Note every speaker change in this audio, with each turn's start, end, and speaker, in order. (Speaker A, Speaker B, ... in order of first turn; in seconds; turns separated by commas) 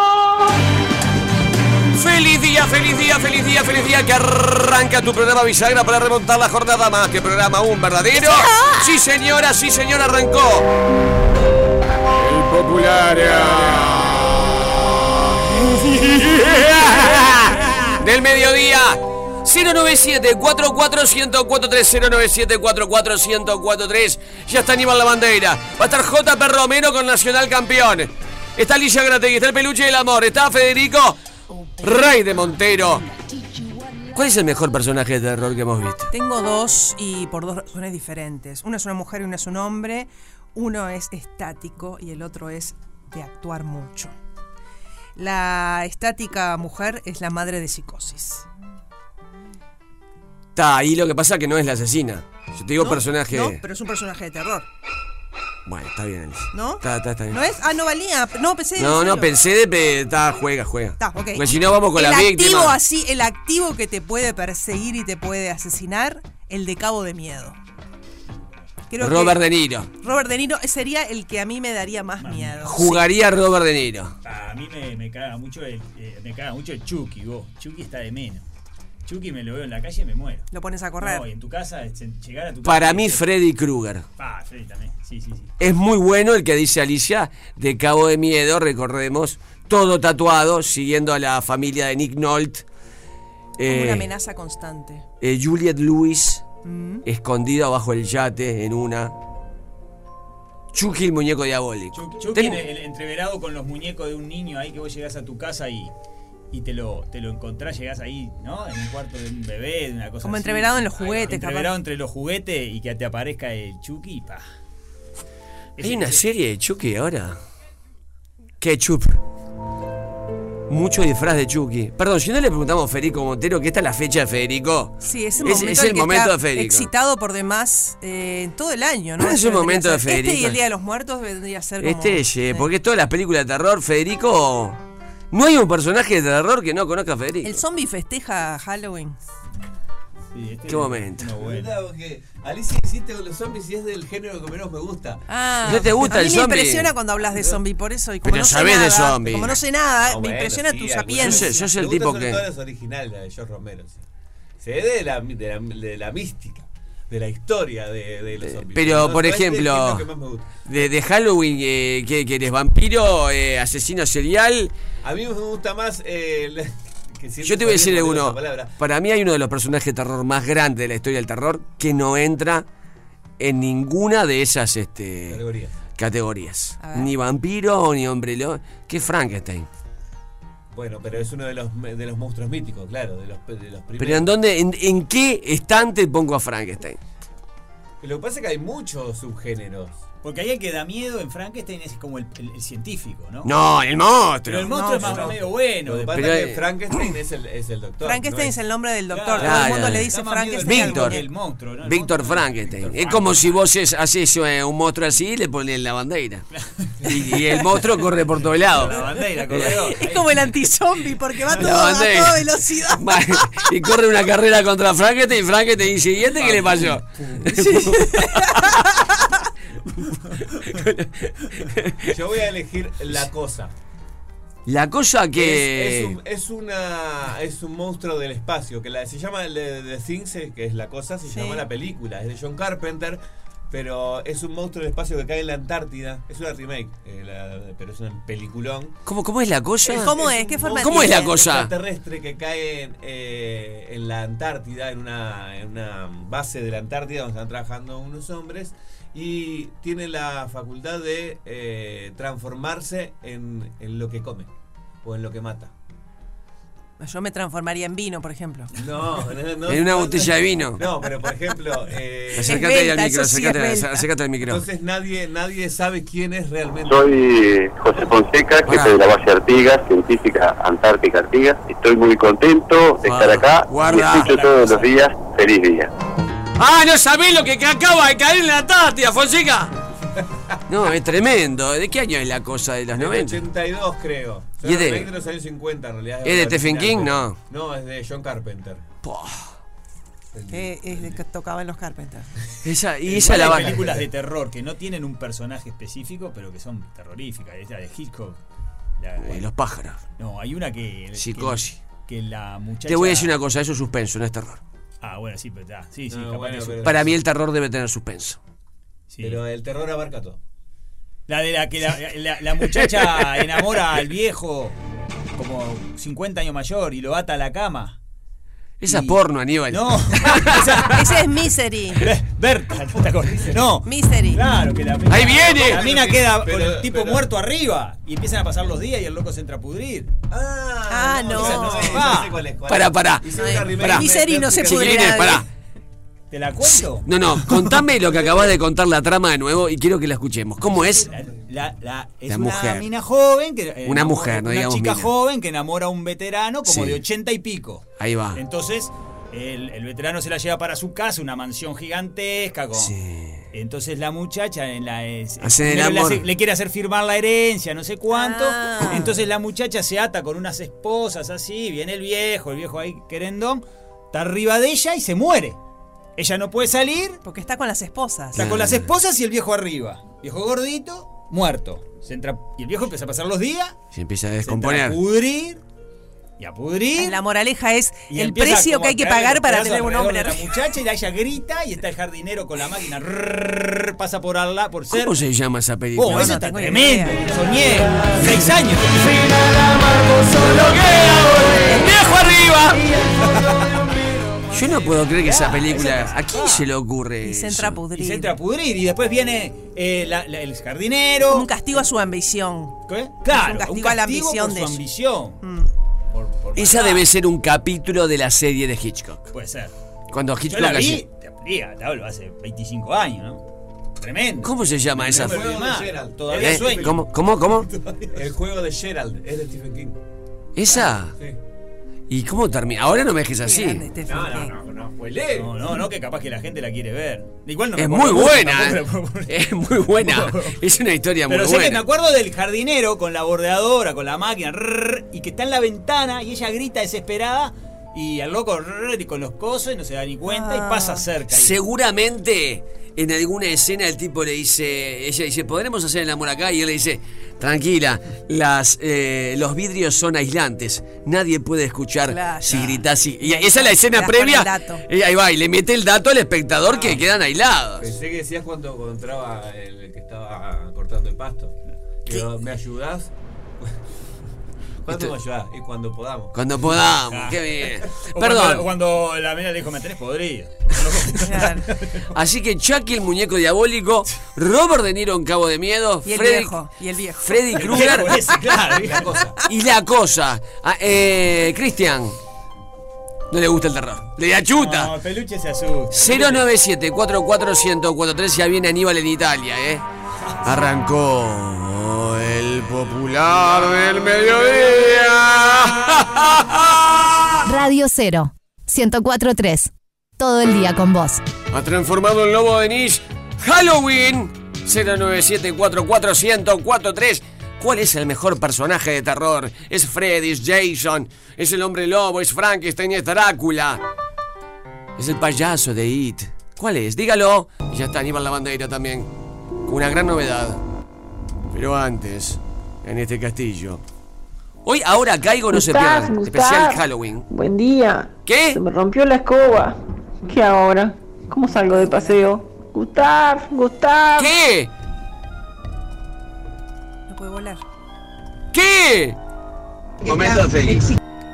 Speaker A: 1.9-10.7, Speaker A: 12.2-14.3, Speaker A: 15.4-31.2, Speaker A: 31.8-33.0, Speaker A: 34.1-36.1, Speaker B: 36.1-44.1, Speaker B: 45.1-48.5, Speaker A: 50.5-53.6, Speaker B: 52.8-54.7, Speaker A: 55.6-57.5, Speaker B: 56.5-59.4, Speaker A: 58.8-62.8, Speaker B: 61.0-67.6, Speaker B: 68.9-69.4, Speaker A: 69.0-69.9, Speaker B: 70.0-73.0, Speaker C: 72.2-73.0, Speaker A: 72.6-74.1, Speaker C: 74.2-78.5, Speaker C: 79.0-80.5, Speaker B: 80.5-81.3, Speaker C: 81.0-83.2, Speaker A: 82.6-84.0, Speaker C: 84.2-85.5, Speaker A: 85.6-92.7, Speaker A: 93.6-94.1, Speaker B: 93.7-95.0, Speaker A: 95.2-96.4, Speaker B: 96.6-97.0, Speaker A: 97.0-99.1, Speaker A: 100.7-102.7, Speaker C: 101.9-105.9, Speaker C: 106.5-114.4, Speaker B: 110.2-111.7, Speaker C: 115.8-116.2, Speaker A: 115.8-117.4, Speaker A: 118.6-119.2, Speaker A: 120.7-126.9, Speaker B: 125.0-132.7, Speaker A: 129.2-130.6, Speaker A: 131.8-134.8, Speaker A: 135.3-137.6, Speaker B: 137.4-139.2, Speaker C: 140.3-141.8, Speaker A: 140.7-141.3, Speaker D: 141.4-145.2, Speaker B: 145.3-151.6, Speaker A: 145.6-146.9, Speaker A: 148.2-149.6, Speaker D: 150.0-154.0, Speaker A: 151.2-152.4, Speaker D: 154.6-160.6, Speaker A: 158.4-160.1, Speaker A: 160.6-164.7, Speaker D: 165.0-168.7, Speaker A: 167.4-172.7, Speaker A: 173.4-175.4, Speaker D: 175.3-175.8, Speaker A: 175.9-179.7, Speaker B: 176.8-177.1, Speaker D: 180.7-184.3, Speaker A: 184.0-187.0, Speaker D: 188.0-190.0, Speaker C: 190.2-193.5, Speaker A: 193.4-194.8, Speaker C: 194.5-196.2, Speaker B: 194.7-195.2, Speaker D: 195.0-198.6, Speaker A: 196.1-196.6, Speaker B: 198.0-201.2, Speaker C: 199.1-203.6, Speaker A: 199.4-201.3, Speaker A: 201.8-206.4, Speaker A: 207.0-209.8, Speaker C: 208.8-210.4, Speaker B: 209.8-213.7, Speaker A: 211.6-218.9, Speaker C: 216.4-217.0, Speaker B: 217.5-219.3, Speaker A: 220.6-222.1, Speaker D: 222.1-223.7, Speaker A: 224.7-226.2, Speaker D: 225.3-238.9, Speaker B: 231.3-231.6, Speaker A: 239.1-240.2, Speaker B: 239.8-241.4, Speaker D: 240.1-254.5, Speaker A: 240.8-241.7, Speaker D: 255.0-255.7, Speaker B: 257.0-258.7, Speaker D: 258.8-262.6, Speaker A: 259.7-260.8, Speaker A: 262.3-264.6, Speaker B: 262.4-264.0, Speaker D: 264.4-267.3, Speaker E: 266.9-275.9, Speaker A: 268.7-269.0, Speaker A: 273.0-274.6, Speaker D: 273.9-274.9, Speaker A: 276.6-279.7, Speaker A: 280.7-283.4, Speaker D: 282.9-288.8, Speaker A: 284.6-285.1, Speaker A: 286.2-287.4, Speaker A: 289.0-289.5, Speaker D: 290.3-291.2, Speaker B: 290.5-292.3, Speaker A: 292.6-293.8, Speaker C: 293.1-298.4, Speaker D: 293.1-294.1, Speaker C: 299.0-299.5, Speaker A: 299.2-300.0, Speaker C: 300.2-303.4, Speaker A: 301.1-301.8, Speaker A: 302.9-304.6, Speaker C: 305.0-306.9, Speaker D: 306.1-307.1, Speaker A: 306.8-308.4, Speaker C: 309.1-309.4, Speaker D: 309.2-310.4, Speaker C: 311.3-314.8, Speaker A: 312.7-313.3, Speaker C: 315.3-318.0, Speaker A: 318.8-320.9, Speaker C: 318.8-319.2, Speaker C: 319.7-321.0, Speaker B: 320.8-322.1, Speaker C: 322.0-330.1, Speaker D: 323.0-323.7, Speaker B: 323.8-324.4, Speaker A: 325.1-325.9, Speaker D: 325.4-327.3, Speaker D: 330.3-335.3, Speaker B: 330.9-332.1, Speaker C: 331.3-332.4, Speaker A: 332.7-335.4, Speaker B: 333.3-335.4, Speaker C: 336.3-337.8, Speaker A: 336.6-341.1, Speaker C: 341.0-352.9, Speaker A: 342.3-342.9, Speaker A: 343.8-345.1, Speaker A: 346.6-347.0, Speaker A: 348.0-348.4, Speaker A: 352.7-353.4, Speaker C: 353.5-365.6, Speaker A: 355.4-356.3, Speaker B: 358.1-359.1, Speaker C: 366.2-367.2, Speaker B: 367.2-368.5, Speaker A: 368.4-368.9, Speaker C: 368.4-373.8, Speaker A: 373.9-375.0, Speaker C: 374.4-375.6, Speaker C: 376.4-377.2, Speaker B: 377.0-380.5, Speaker C: 378.1-385.1, Speaker A: 384.9-386.4, Speaker C: 386.0-389.5, Speaker B: 386.0-387.2, Speaker A: 390.7-392.9, Speaker D: 393.2-394.4, Speaker A: 394.5-397.8, Speaker C: 395.2-396.6, Speaker B: 397.2-398.4, Speaker C: 397.9-401.5, Speaker B: 401.2-404.8, Speaker C: 402.9-405.4, Speaker B: 405.4-405.7, Speaker C: 406.1-407.1, Speaker A: 406.6-409.3, Speaker C: 409.3-409.7, Speaker A: 410.1-411.0, Speaker C: 410.5-413.4, Speaker C: 414.0-417.0, Speaker A: 414.4-415.6, Speaker D: 415.0-417.0, Speaker A: 416.3-417.7, Speaker D: 418.1-420.0, Speaker A: 420.6-421.1, Speaker D: 420.8-421.4, Speaker A: 422.1-423.9, Speaker B: 423.4-424.5, Speaker D: 424.1-425.5, Speaker C: 425.4-430.6, Speaker A: 427.8-431.9, Speaker C: 431.3-441.6, Speaker B: 440.2-441.1, Speaker A: 441.3-457.9, Speaker B: 452.1-454.8, Speaker D: 457.8-463.7, Speaker D: 464.9-466.4, Speaker A: 466.3-468.7, Speaker C: 466.7-467.4, Speaker C: 468.0-472.1, Speaker B: 471.2-471.7, Speaker A: 472.1-476.6, Speaker B: 476.0-477.8, Speaker A: 477.2-478.2, Speaker C: 477.6-479.1, Speaker D: 478.4-479.4, Speaker A: 479.4-482.2, Speaker A: 483.3-484.9, Speaker C: 484.5-486.5, Speaker A: 485.9-489.8, Speaker A: 490.4-497.4, Speaker F: 497.5-501.2, Speaker A: 501.5-513.8, Speaker A: 515.0-519.1, Speaker A: 519.6-520.6, Speaker A: 521.5-523.8, Speaker A: 524.6-527.3, Speaker G: 525.5-534.4, Speaker A: 528.2-528.6, Speaker B: 531.5-532.2, Speaker A: 534.1-534.7, Speaker B: 537.1-537.6, Speaker A: 538.5-539.2, Speaker A: 540.0-540.9